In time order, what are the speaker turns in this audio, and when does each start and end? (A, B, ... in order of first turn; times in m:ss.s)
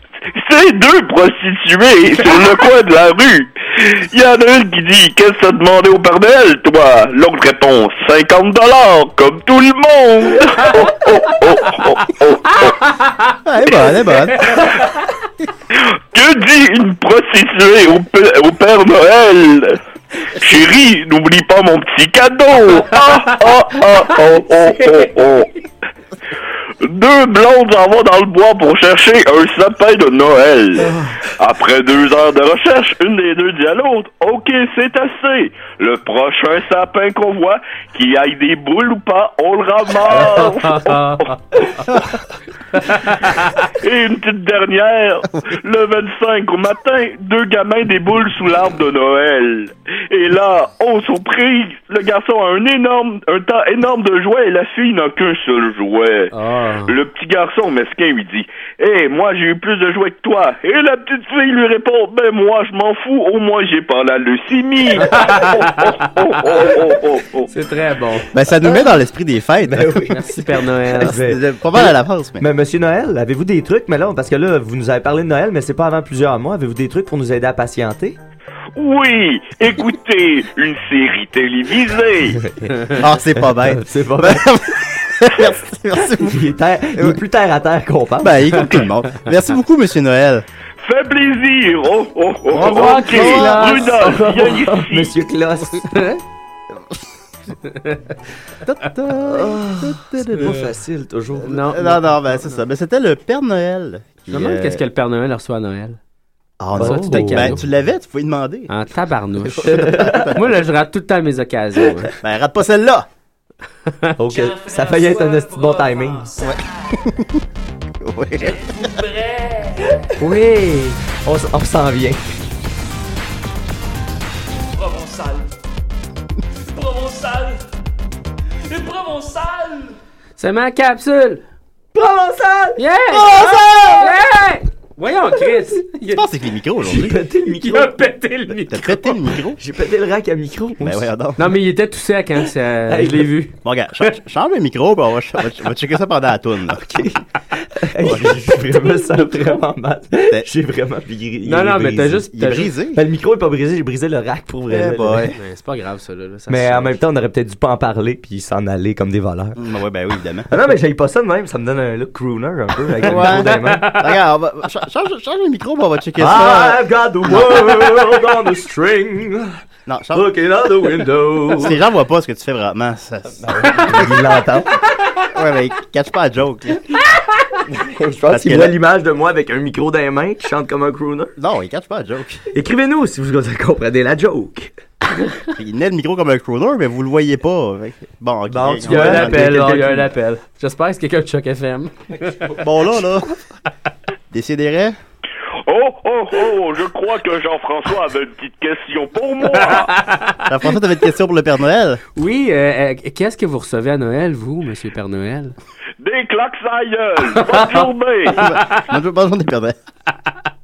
0:00.3-0:12.7 A
0:12.6-0:13.4 B
0:13.4-0:14.7 C
0:14.3-0:15.1 B
0:15.7-0:19.8 A
0:20.4-0:25.5 A
0:24.6-0:25.0 B
0:26.8-0:30.8 A
0:30.8-0:31.1 B
0:31.4-0:41.3 A
0:40.2-0:41.8 B
0:42.7-0:43.6 B
0:43.7-0:56.3 A
0:56.3-0:57.0 B
0:56.9-1:07.5 A
1:05.0-1:06.7 B
1:07.5-1:08.3 B
1:08.3-1:10.1 C
1:09.6-1:10.3 D
1:10.1-1:11.1 B
1:10.9-1:18.2 D
1:11.0-1:12.4 C
1:18.8-1:22.4 A
1:22.4-1:24.6 D
1:23.0-1:27.2 C
1:26.1-1:28.6 D
1:28.2-1:30.4 C
1:30.8-1:35.1 A
1:32.5-1:34.7 B
1:32.8-1:33.9 C
1:33.3-1:35.9 D
1:35.9-1:36.2 B
1:37.6-1:38.0 B
1:38.6-1:40.6 C
1:39.2-1:41.7 D
1:41.4-1:42.1 B
1:41.6-1:44.8 C
1:44.3-1:46.0 B
1:46.6-1:48.7 C
1:46.8-1:47.6 D
1:46.8-1:47.6 B
1:48.7-1:52.1 B
1:49.4-1:50.5 C
1:49.6-1:50.3 D
1:52.2-1:53.1 C
1:54.2-1:56.4 D
1:54.3-1:56.5 E
1:56.4-1:57.4 C
1:58.0-1:58.7 C
1:58.5-2:00.0 E
2:00.2-2:01.0 B
2:01.2-2:02.4 D
2:04.8-2:05.4 E
2:06.7-2:07.6 E
2:08.7-2:09.8 E
2:10.4-2:11.4 B
2:11.9-2:14.1 D
2:12.8-2:16.2 B
2:13.3-2:14.0 C
2:16.1-2:17.2 C
2:16.8-2:18.1 D
2:17.5-2:19.1 B
2:18.7-2:19.6 C
2:19.6-2:21.1 D
2:20.8-2:21.5 C
2:21.4-2:24.1 B
2:22.9-2:23.3 D
2:23.6-2:26.8 C
2:26.7-2:32.3 D
2:31.4-2:32.7 B
2:32.3-2:33.0 C
2:32.9-2:35.3 D
2:34.7-2:35.3 C
2:35.4-2:37.0 B
2:36.5-2:39.6 D
2:39.6-2:40.5 C
2:40.5-2:44.0 D
2:43.0-2:48.1 C
2:43.1-2:44.1 B
2:46.2-2:49.6 D
2:49.9-2:50.3 C
2:50.1-2:51.8 D
2:51.5-2:54.1 C
2:53.4-2:54.8 D
2:55.3-2:56.9 C
2:57.6-3:01.3 D
2:58.3-2:58.7 C
3:01.4-3:02.4 C
3:02.5-3:04.7 D
3:05.5-3:09.8 C
3:08.5-3:10.1 D
3:08.9-3:12.6 B
3:12.6-3:13.3 C
3:14.3-3:15.0 C
3:15.7-3:19.9 A
3:19.5-3:20.4 B
3:20.4-3:22.0 C
3:22.2-3:25.5 B
3:26.0-3:28.4 A
3:27.3-3:28.9 B
3:28.4-3:29.7 C